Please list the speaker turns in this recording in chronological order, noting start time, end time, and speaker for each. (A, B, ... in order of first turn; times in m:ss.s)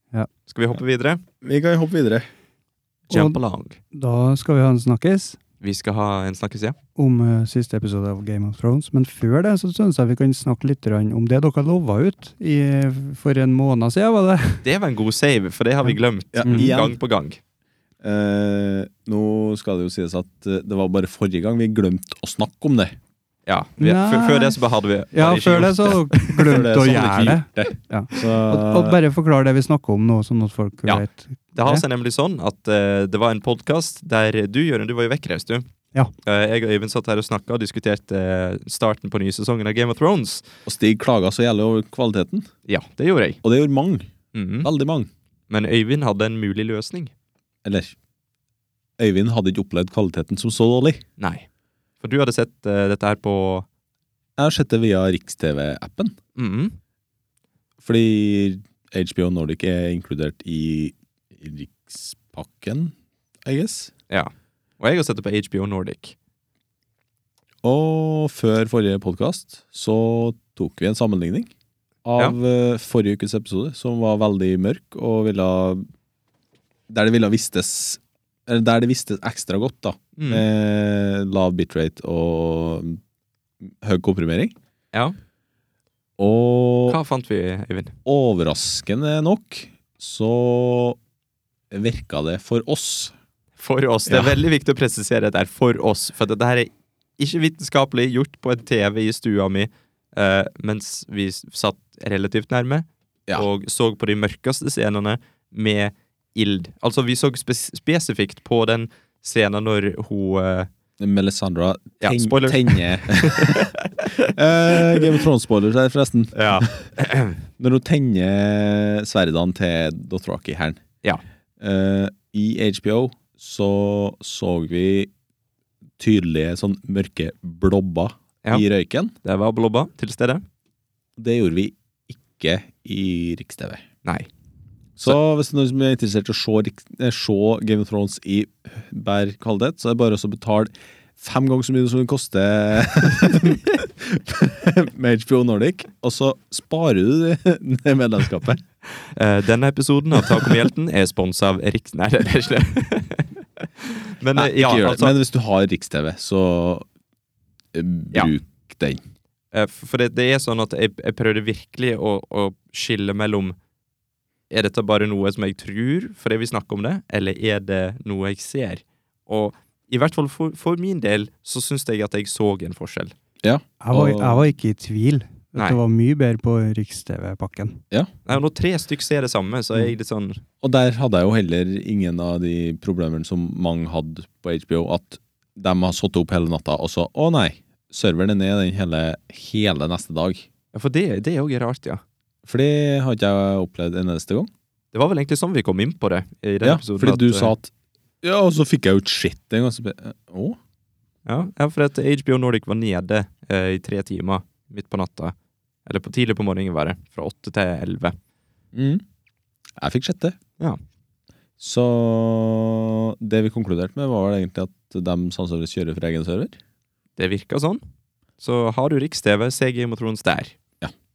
0:00.5-0:01.2 A
0:01.4-0:02.3 B
0:03.1-0:03.8 A
0:03.1-0:03.4 C
0:03.9-0:05.4 C
0:05.6-0:06.8 A
0:07.0-0:14.6 C
0:14.6-0:17.4 A
0:16.3-0:17.0 B
0:16.5-0:16.7 C
0:18.0-0:23.0 B
0:23.5-0:26.6 A
0:23.8-0:24.6 C
0:25.1-0:31.8 C
0:26.4-0:29.0 B
0:31.6-0:35.6 A
0:36.2-0:40.4 A
0:40.7-0:42.5 B
0:42.7-0:43.4 A
0:43.4-0:44.1 B
0:44.3-0:44.7 A
0:44.6-0:45.1 B
0:45.5-0:47.1 A
0:47.6-0:48.0 B
0:49.0-0:51.0 B
0:51.2-0:51.5 A
0:52.0-0:53.7 A
0:54.4-0:56.2 B
0:56.4-0:56.8 A
0:57.8-1:03.9 B
1:04.1-1:06.2 A
1:07.6-1:11.5 B
1:12.0-1:15.8 B
1:16.9-1:23.0 B
1:20.2-1:20.4 A
1:23.6-1:24.6 B
1:26.2-1:27.0 B
1:26.9-1:27.9 A
1:28.1-1:31.0 B
1:31.7-1:33.2 B
1:33.6-1:50.7 A
1:34.1-1:34.4 B
1:51.0-1:56.9 B
1:52.0-1:55.2 A
1:56.3-1:57.4 A
1:57.6-2:00.8 B
2:01.6-2:05.1 B
2:06.0-2:09.2 B
2:09.2-2:10.4 A
2:11.2-2:13.8 B
2:15.0-2:28.6 B
2:29.0-2:35.1 A
2:34.4-2:36.9 B
2:37.7-2:39.0 B
2:39.5-2:43.6 A
2:44.5-2:53.1 A
2:53.4-2:54.5 B
2:53.8-2:57.8 C
2:58.3-3:00.4 A
3:00.6-3:10.5 B
3:10.7-3:12.0 A
3:12.4-3:14.5 B
3:14.9-3:17.5 A
3:16.6-3:20.6 B
3:21.3-3:25.4 A
3:25.9-3:28.2 A
3:28.7-3:29.0 B
3:29.8-3:30.4 B
3:31.6-3:36.6 B
3:37.2-3:37.8 A
3:38.4-3:40.6 A